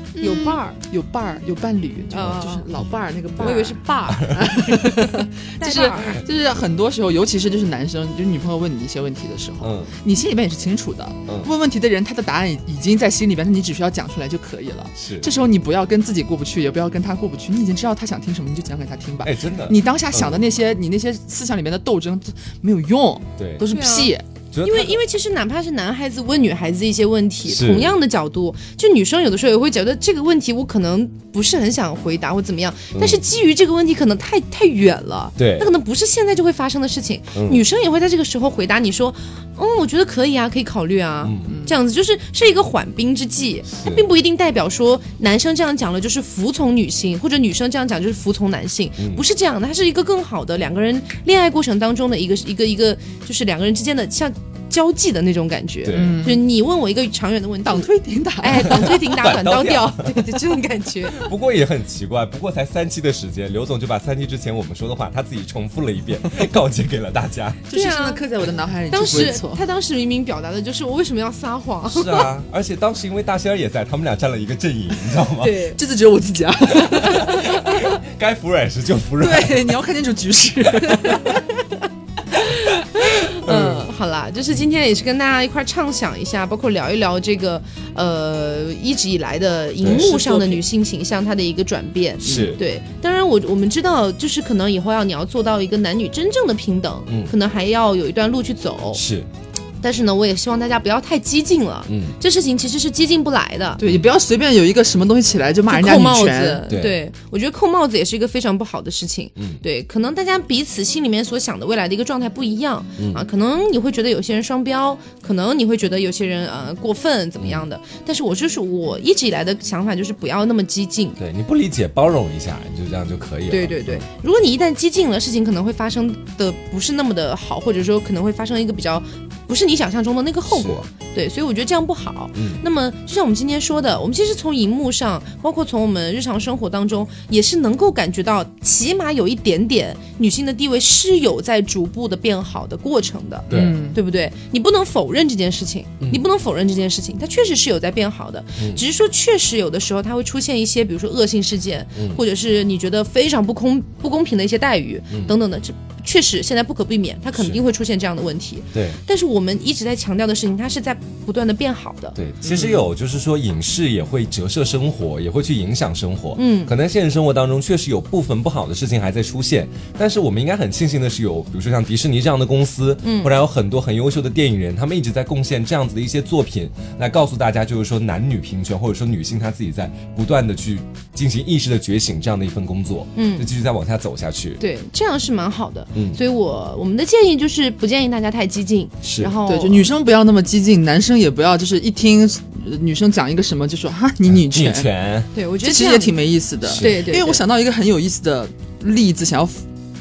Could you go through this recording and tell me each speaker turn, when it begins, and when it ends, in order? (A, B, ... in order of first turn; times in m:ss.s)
0:00.2-0:24.2 A
0:00.2-0:00.8 B
0:02.1-0:02.6 B
0:03.4-0:06.2 B
0:09.6-0:09.9 C
0:11.3-0:11.5 C
0:15.0-0:15.3 C
0:19.2-0:20.4 C
0:23.4-0:23.7 C
0:23.7-0:57.9 B
0:24.5-0:25.0 C
0:27.4-0:27.9 C
0:32.9-0:33.2 C
0:35.4-0:35.7 C
0:37.3-0:37.6 C
0:41.2-0:41.6 C
0:41.4-0:41.8 A
0:43.7-0:44.1 C
0:49.0-0:49.2 C
0:55.8-0:56.2 C
0:55.9-0:56.4 A
0:57.6-0:59.0 A
0:58.4-1:01.3 B
0:58.6-1:00.3 C
1:01.1-1:07.6 C
1:07.7-1:09.6 A
1:07.7-1:08.2 B
1:08.9-1:12.3 B
1:09.1-1:09.3 C
1:11.8-1:15.6 C
1:15.4-1:15.8 B
1:15.7-1:17.5 A
1:16.7-1:19.8 C
1:17.2-1:17.5 B
1:19.2-1:21.4 A
1:20.8-1:21.3 B
1:22.3-1:39.0 B
1:23.4-1:23.9 C
1:29.8-1:30.1 C
1:29.8-1:30.6 A
1:32.2-1:32.6 C
1:32.3-1:32.5 A
1:37.1-1:37.3 C
1:38.9-1:39.3 C
1:39.8-1:43.8 B
1:41.9-1:42.2 C
1:43.8-1:46.6 A
1:45.7-2:01.2 B
1:46.7-1:47.0 C
1:49.4-1:49.6 C
1:53.0-1:53.2 C
1:57.4-1:57.6 C
2:01.2-2:04.0 C
2:03.5-2:42.2 B
2:10.5-2:10.8 C
2:12.3-2:12.6 C
2:23.5-2:23.8 C
2:23.5-2:24.0 A
2:28.6-2:28.8 C
2:31.9-2:32.2 C
2:37.3-2:37.6 C
2:38.7-2:39.0 C
2:42.2-3:04.6 C
2:42.4-2:42.9 A
2:46.4-2:46.7 B
2:53.0-2:53.4 B
3:03.1-3:03.5 B
3:04.6-3:09.9 B
3:05.9-3:06.2 C
3:09.0-3:09.3 C
3:09.4-3:14.9 A
3:14.3-3:15.3 C
3:15.3-3:17.4 B
3:15.6-3:19.6 A
3:16.7-3:17.0 C